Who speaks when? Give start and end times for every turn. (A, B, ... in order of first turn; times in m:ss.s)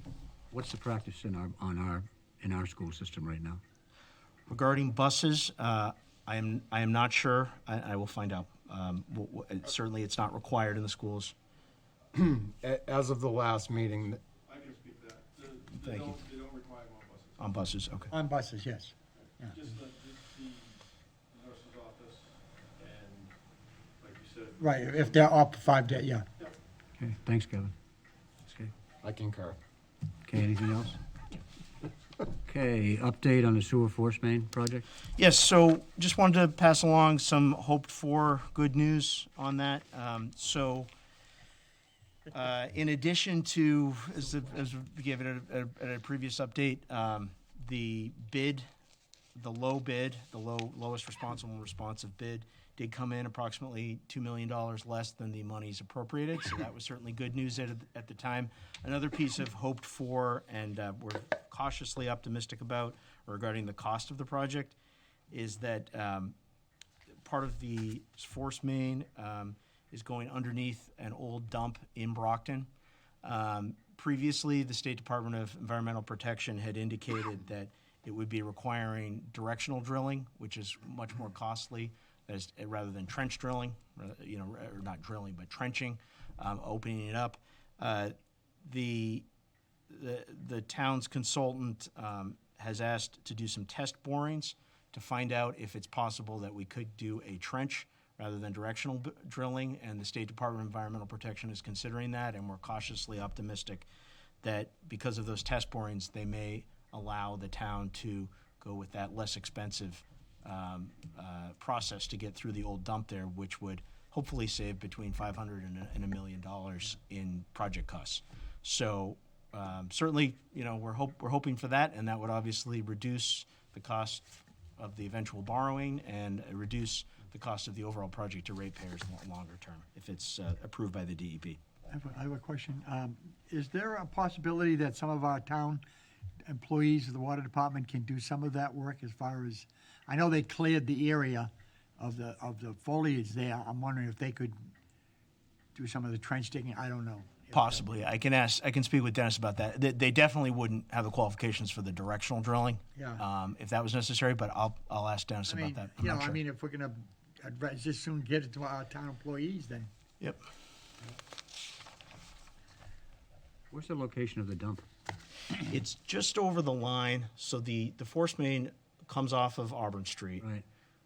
0:00.5-0:03.6 A
0:04.5-0:11.3 B
0:12.1-0:14.2 C
0:14.5-0:17.4 D
0:15.8-0:16.2 B
0:17.4-0:18.1 B
0:18.1-0:19.6 E
0:19.5-0:20.7 D
0:21.3-0:23.3 D
0:24.0-0:25.1 D
0:24.6-0:26.3 E
0:27.0-0:27.7 A
0:28.4-0:28.7 A
0:29.0-0:29.6 C
0:30.2-0:31.0 A
0:32.4-0:34.8 A
0:35.2-0:40.9 B
0:42.3-0:48.7 B
0:49.4-1:04.8 B
1:05.3-1:06.4 B
1:07.2-1:12.7 B
1:13.2-1:29.3 B
1:29.9-1:43.9 B
1:44.4-2:04.3 B
2:04.8-2:11.6 B
2:11.9-2:15.8 E
2:16.4-2:24.6 E
2:25.8-2:27.8 E
2:27.5-2:36.4 B
2:33.0-2:33.2 E
2:35.5-2:39.9 E
2:43.7-2:44.8 A
2:45.6-2:50.4 B